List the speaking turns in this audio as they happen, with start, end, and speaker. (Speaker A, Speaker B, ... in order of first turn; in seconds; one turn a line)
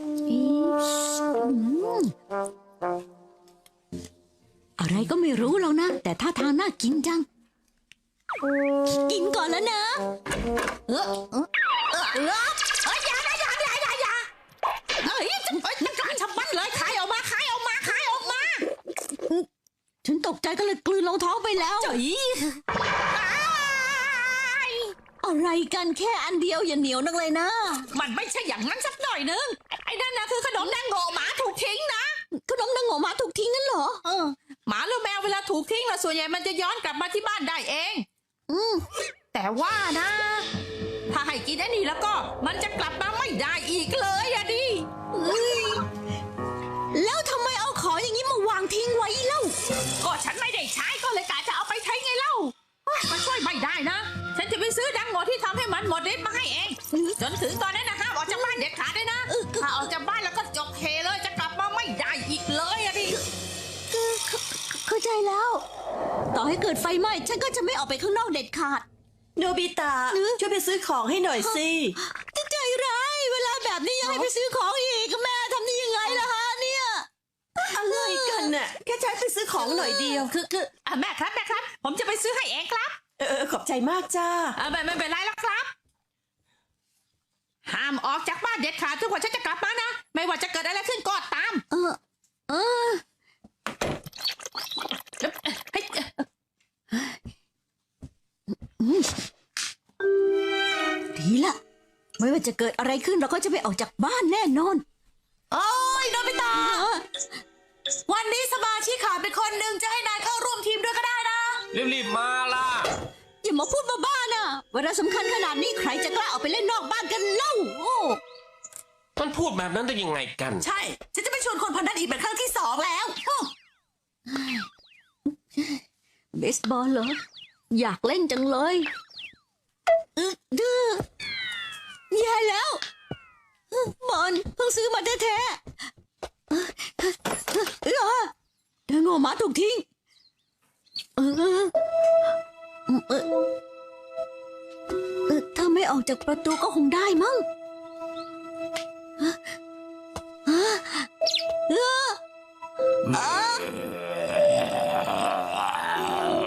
Speaker A: 0.3-2.1
Speaker A: 4.8-7.3
Speaker A: 8.9-10.1
Speaker B: 10.9-12.2
Speaker A: 11.9-12.6
Speaker B: 12.8-14.3
Speaker B: 15.0-18.6
Speaker A: 15.1-16.2
Speaker A: 19.1-19.5
Speaker A: 20.0-22.0
Speaker B: 21.8-24.9
Speaker A: 25.2-27.9
Speaker B: 27.9-32.2
Speaker A: 32.3-34.0
Speaker B: 34.0-38.1
Speaker A: 38.5-38.9
Speaker B: 39.3-40.5
Speaker B: 41.1-44.9
Speaker A: 45.1-45.9
Speaker A: 46.9-49.6
Speaker B: 50.0-63.2
Speaker A: 56.9-57.2
Speaker A: 58.3-58.7
Speaker A: 59.3-59.9
Speaker A: 63.9-65.7
Speaker A: 66.3-68.9
Speaker C: 69.4-72.0
Speaker A: 70.1-70.4
Speaker A: 71.3-77.1
Speaker C: 77.6-80.3
Speaker A: 77.7-78.5
Speaker B: 79.6-83.0
Speaker A: 79.8-80.2
Speaker C: 83.2-84.5
Speaker B: 84.6-85.7
Speaker B: 87.7-91.6
Speaker A: 91.7-93.0
Speaker B: 95.2-96.2
Speaker A: 98.5-99.1
Speaker A: 101.2-101.6
Speaker A: 102.2-104.8
Speaker C: 105.5-106.8
Speaker A: 106.5-107.0
Speaker C: 108.1-111.6
Speaker D: 111.7-112.9
Speaker A: 113.4-118.2
Speaker D: 119.2-120.7
Speaker C: 120.6-123.5
Speaker A: 124.3-124.7
Speaker A: 125.3-125.8
Speaker A: 126.3-127.2
Speaker A: 127.7-128.9
Speaker A: 130.2-131.0
Speaker A: 132.1-132.8
Speaker A: 133.7-135.6
Speaker A: 136.5-138.3
Speaker A: 138.9-139.8
Speaker A: 141.2-141.7
Speaker A: 142.9-143.4
Speaker A: 145.3-147.5
Speaker A: 150.5-151.1
Speaker A: 151.7-152.2
Speaker A: 153.1-153.8